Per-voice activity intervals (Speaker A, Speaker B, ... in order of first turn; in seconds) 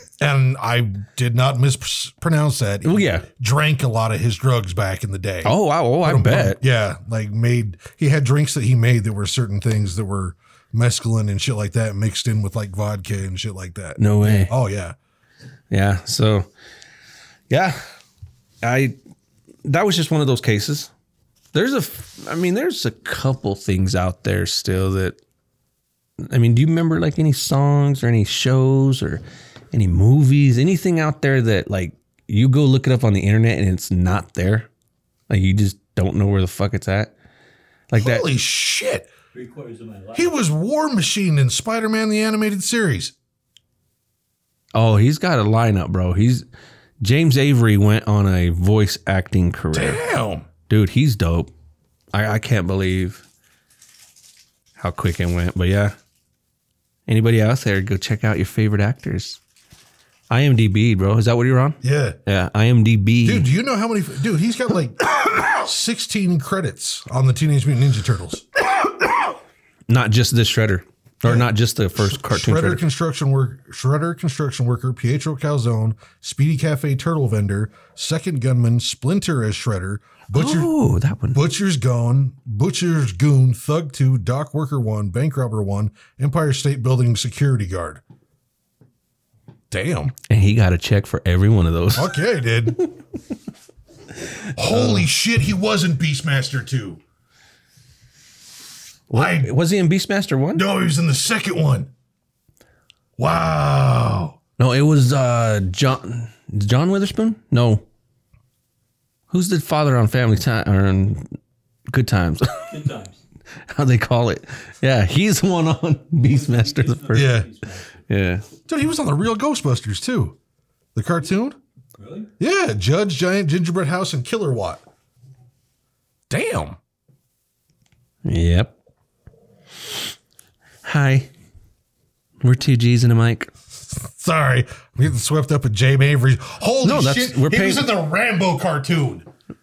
Speaker A: 0.2-14.9, 38.0-39.1, 40.1-43.1, 49.7-50.5, 61.8-62.2, 63.2-68.5, 71.2-80.7, 81.3-88.0, 89.7-90.1, 92.0-92.8, 94.5-97.0, 99.1-99.5, 100.5-101.9, 103.2-104.4, 117.1-117.5, 118.7-120.4, 121.0-121.6, 122.4-124.8, 126.3-126.8, 133.9-139.3
Speaker B: 2.8-3.3, 5.4-6.6, 14.0-14.5, 15.7-16.5, 17.5-17.8, 18.6-19.0, 19.6-20.9, 21.5-25.2, 26.3-34.7, 35.3-37.1, 37.9-38.2, 44.8-46.5, 47.0-50.0, 50.7-51.5, 52.1-53.2, 54.8-56.0, 57.1-59.4, 60.3-63.5, 69.9-72.8, 80.3-81.4, 90.3-92.2, 94.7-95.1, 99.1-100.6, 104.6-107.9, 109.3-111.3, 111.9-112.7, 113.7-117.4, 118.1-118.5, 128.2-128.7, 130.8-131.3, 132.4-133.5, 136.8-137.9
Speaker C: 39.3-40.4, 112.7-113.2, 116.2-118.0, 122.0-122.3